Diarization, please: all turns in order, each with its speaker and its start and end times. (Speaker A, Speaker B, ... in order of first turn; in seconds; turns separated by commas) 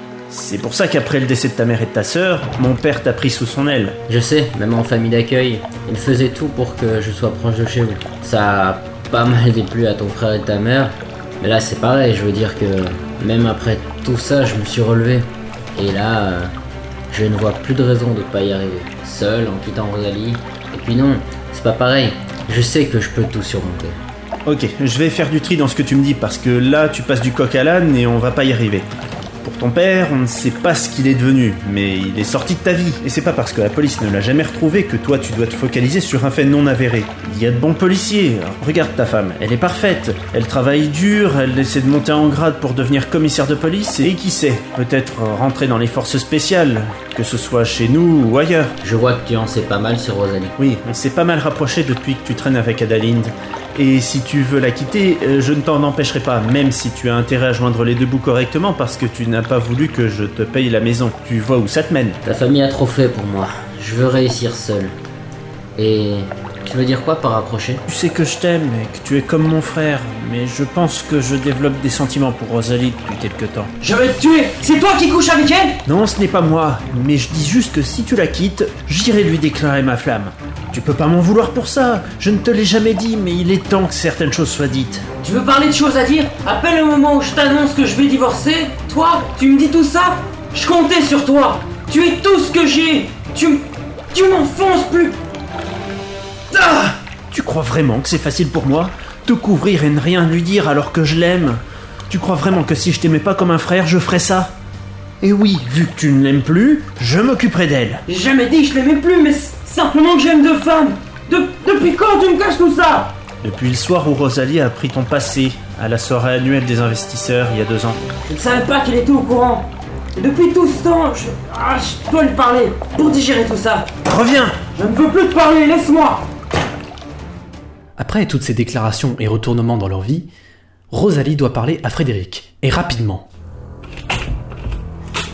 Speaker A: 0.3-4.0, Speaker B: 4.1-16.5, Speaker B: 17.1-24.0, Speaker A: 24.4-28.9, Speaker A: 29.4-48.7, Speaker B: 48.8-50.5, Speaker A: 50.6-62.2, Speaker B: 62.2-65.0, Speaker B: 65.8-67.8, Speaker A: 67.9-73.7, Speaker C: 73.8-75.8, Speaker A: 75.8-85.0, Speaker C: 85.4-90.2, Speaker B: 90.5-90.8, Speaker C: 90.7-95.2, Speaker B: 91.5-91.8, Speaker A: 96.5-104.5, Speaker A: 105.2-108.0, Speaker C: 108.1-113.1, Speaker A: 113.4-118.0, Speaker C: 118.3-124.0, Speaker A: 124.0-124.6, Speaker C: 124.7-126.2, Speaker D: 128.0-130.3, Speaker D: 130.9-133.2